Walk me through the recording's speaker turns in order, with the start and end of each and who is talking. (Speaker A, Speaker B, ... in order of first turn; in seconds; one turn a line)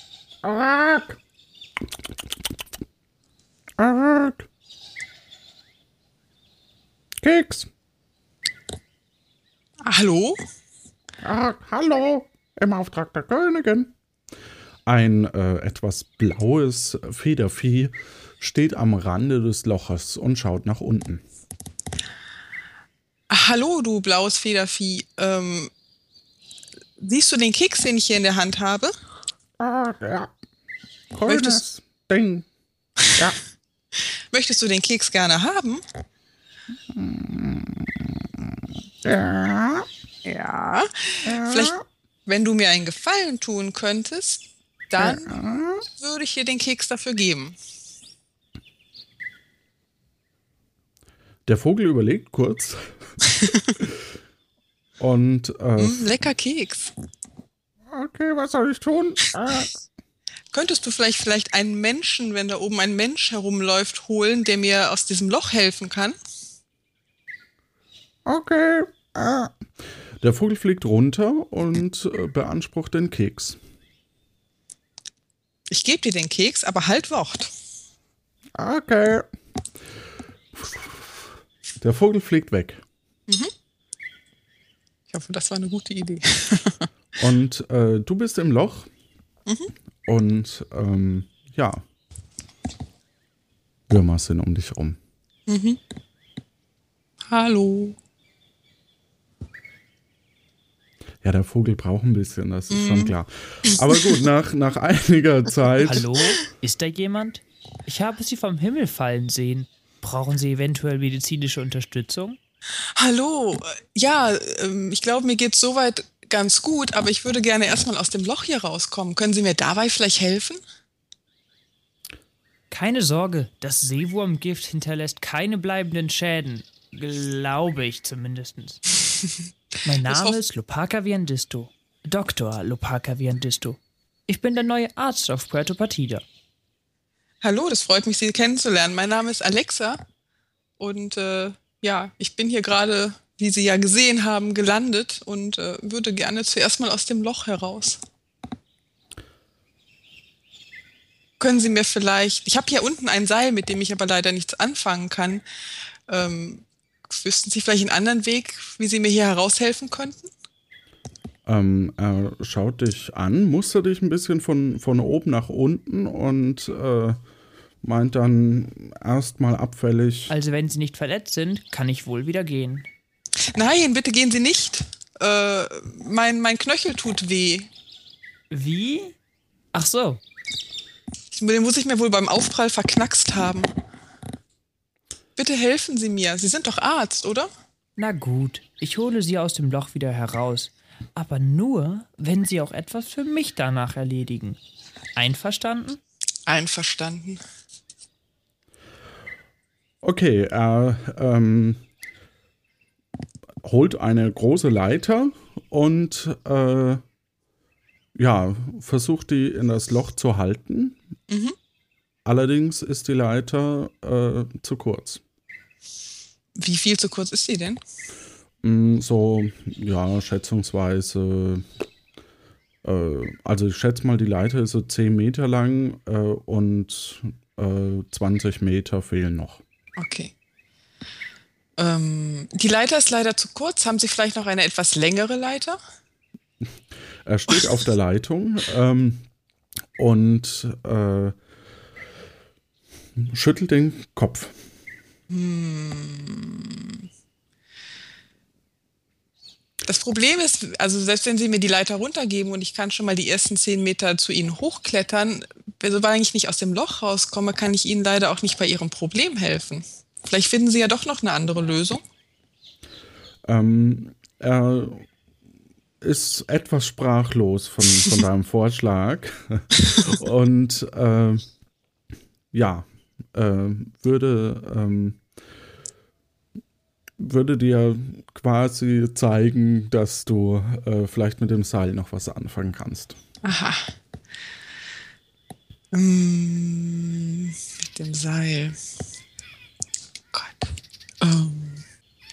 Speaker A: 0.4-1.2
Speaker A: 3.8-4.5
Speaker A: 7.2-7.7
Speaker B: 9.8-10.4
Speaker A: 11.2-13.9
Speaker A: 14.9-21.2
Speaker B: 23.3-25.7
Speaker B: 27.0-28.9
Speaker A: 29.6-30.3
Speaker A: 31.1-32.5
Speaker B: 31.3-31.6
Speaker B: 34.3-35.8
Speaker A: 36.9-38.5
Speaker A: 39.0-39.9
Speaker B: 40.2-45.4
Speaker A: 41.3-41.8
Speaker A: 45.0-45.8
Speaker B: 46.0-47.6
Speaker A: 51.5-53.0
Speaker A: 55.0-56.0
Speaker B: 55.8-56.9
Speaker A: 57.9-59.7
Speaker B: 60.5-66.2
Speaker A: 68.2-69.5
Speaker A: 70.2-73.6
Speaker B: 75.7-77.5
Speaker A: 78.5-79.3
Speaker A: 80.5-81.2
Speaker A: 81.8-82.8
Speaker B: 85.1-86.9
Speaker A: 87.2-88.9
Speaker A: 90.0-91.8
Speaker A: 93.9-95.0
Speaker B: 95.5-95.8
Speaker B: 97.3-98.0
Speaker A: 101.2-106.1
Speaker B: 102.7-103.1
Speaker B: 103.9-104.2
Speaker C: 105.8-112.4
Speaker B: 113.0-120.6
Speaker C: 122.7-128.8
Speaker C: 129.8-136.2
Speaker B: 130.0-130.4
Speaker B: 137.4-140.0
Speaker B: 140.8-148.0
Speaker B: 151.4-155.4
Speaker B: 156.1-160.3
Speaker A: 161.4-167.2
Speaker A: 167.8-170.3
Speaker C: 170.3-172.9
Speaker B: 173.5-177.7
Speaker C: 178.5-179.1
Speaker C: 179.7-180.2
Speaker B: 181.3-183.7
Speaker B: 185.4-187.5
Speaker C: 188.0-194.6
Speaker C: 195.2-196.0
Speaker B: 196.5-197.4
Speaker A: 200.0-201.8
Speaker A: 203.6-207.0
Speaker A: 208.1-211.0
Speaker B: 211.3-211.6
Speaker A: 212.2-215.2
Speaker B: 216.6-217.8
Speaker A: 218.6-221.7
Speaker A: 222.8-229.6
Speaker B: 230.0-230.3
Speaker B: 231.8-235.8
Speaker A: 237.2-239.2
Speaker A: 239.9-241.4
Speaker A: 243.2-244.5
Speaker B: 245.3-247.0
Speaker B: 249.8-262.0
Speaker A: 263.4-265.1
Speaker A: 266.0-271.4
Speaker A: 272.5-275.2
Speaker A: 277.2-283.2
Speaker B: 283.4-283.9
Speaker B: 285.9-288.8
Speaker B: 290.3-291.8